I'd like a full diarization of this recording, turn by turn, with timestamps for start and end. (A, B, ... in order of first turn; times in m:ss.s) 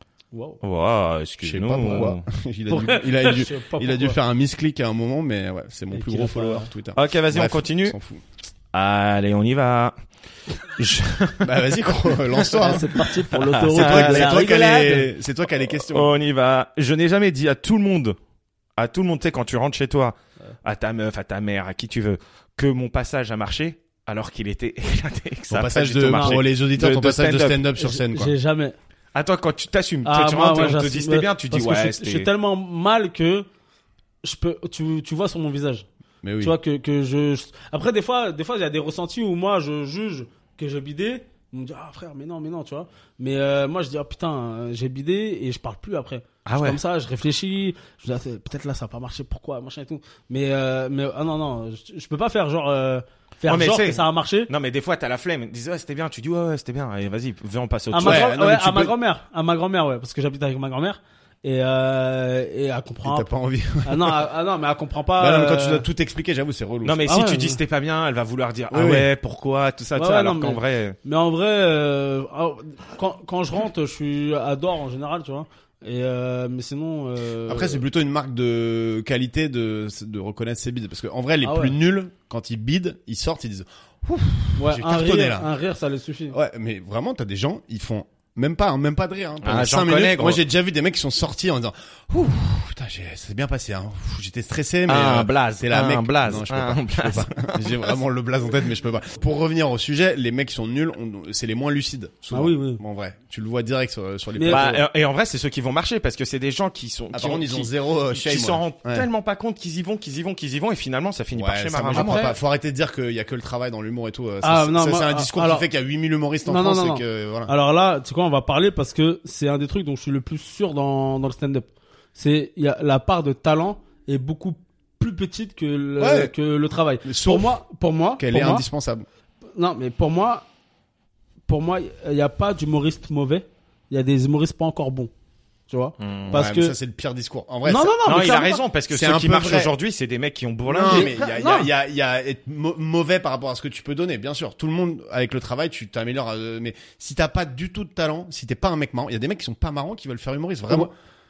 0:00.3-0:00.6 A
0:00.6-0:02.2 B
0:01.4-0:08.2 C
0:02.7-0:04.2 A
0:05.9-0:06.7 A
0:07.0-0:08.0 B
0:08.7-0:10.0 B
0:10.6-0:11.7 B
0:11.4-0:13.0 C
0:12.4-0:12.7 B
0:12.6-0:15.1 A
0:13.3-0:14.4 B
0:13.7-0:16.2 C
0:15.8-0:18.2 B
0:18.8-0:27.6 B
0:25.5-0:28.4 C
0:26.1-0:26.4 A
0:27.8-0:28.8 A
0:29.2-0:32.3 B
0:30.0-0:33.5 A
0:34.2-0:35.9 A
0:36.2-0:36.6 C
0:36.4-0:54.5 A
0:46.5-0:46.8 B
0:53.5-0:58.3 B
0:57.9-1:03.3 A
0:58.0-0:58.9 C
1:03.0-1:04.2 C
1:03.8-1:05.8 A
1:05.2-1:07.0 C
1:06.8-1:11.0 B
1:07.0-1:07.6 A
1:08.7-1:09.1 C
1:10.0-1:17.8 A
1:17.5-1:25.5 C
1:21.4-1:21.8 A
1:24.6-1:26.4 A
1:26.3-1:44.8 C
1:29.4-1:30.4 B
1:34.9-1:37.9 B
1:42.3-1:42.8 A
1:44.4-1:44.7 A
1:44.5-1:52.3 B
1:47.1-1:49.1 C
1:51.4-1:57.5 C
1:51.9-1:52.4 A
1:54.4-1:55.7 A
1:56.4-2:08.6 A
2:06.0-2:06.3 C
2:07.0-2:07.6 C
2:08.2-2:09.1 C
2:09.5-2:10.4 A
2:11.5-2:15.1 A
2:15.7-2:16.8 A
2:16.0-2:16.4 B
2:16.3-2:18.0 C
2:17.6-2:18.6 A
2:18.0-2:21.1 B
2:18.9-2:19.7 C
2:20.7-2:30.9 C
2:20.8-2:21.7 A